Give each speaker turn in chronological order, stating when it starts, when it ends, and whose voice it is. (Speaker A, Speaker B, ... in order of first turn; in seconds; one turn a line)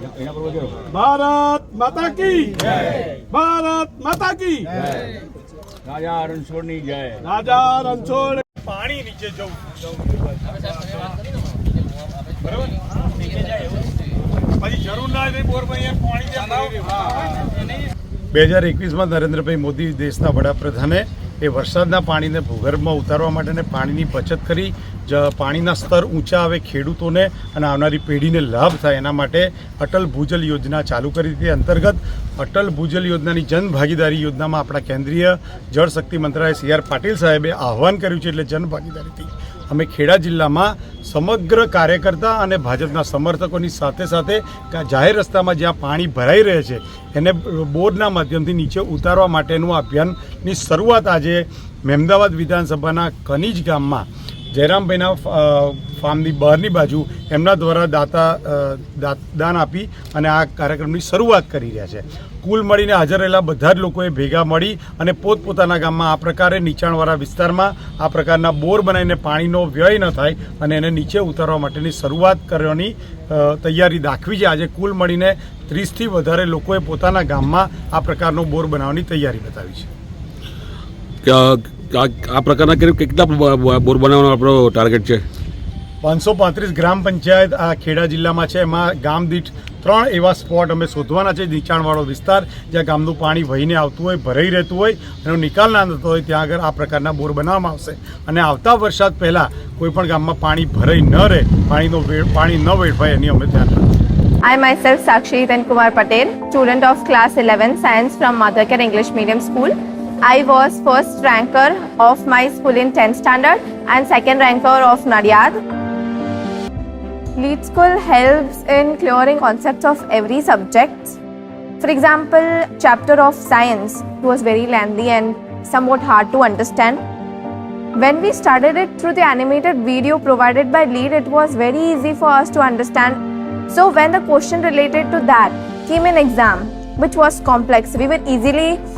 Speaker A: 0.1-0.8
Speaker B: 0.9-2.6
Speaker B: 3.3-4.7
Speaker A: 5.8-7.2
Speaker B: 7.2-8.4
Speaker C: 8.5-9.8
Speaker C: 14.6-16.7
Speaker C: 18.3-79.9
Speaker D: 81.2-85.2
Speaker C: 86.0-103.8
Speaker E: 104.4-115.6
Speaker E: 117.3-121.2
Speaker E: 121.8-127.0
Speaker E: 128.0-133.2
Speaker E: 133.7-138.8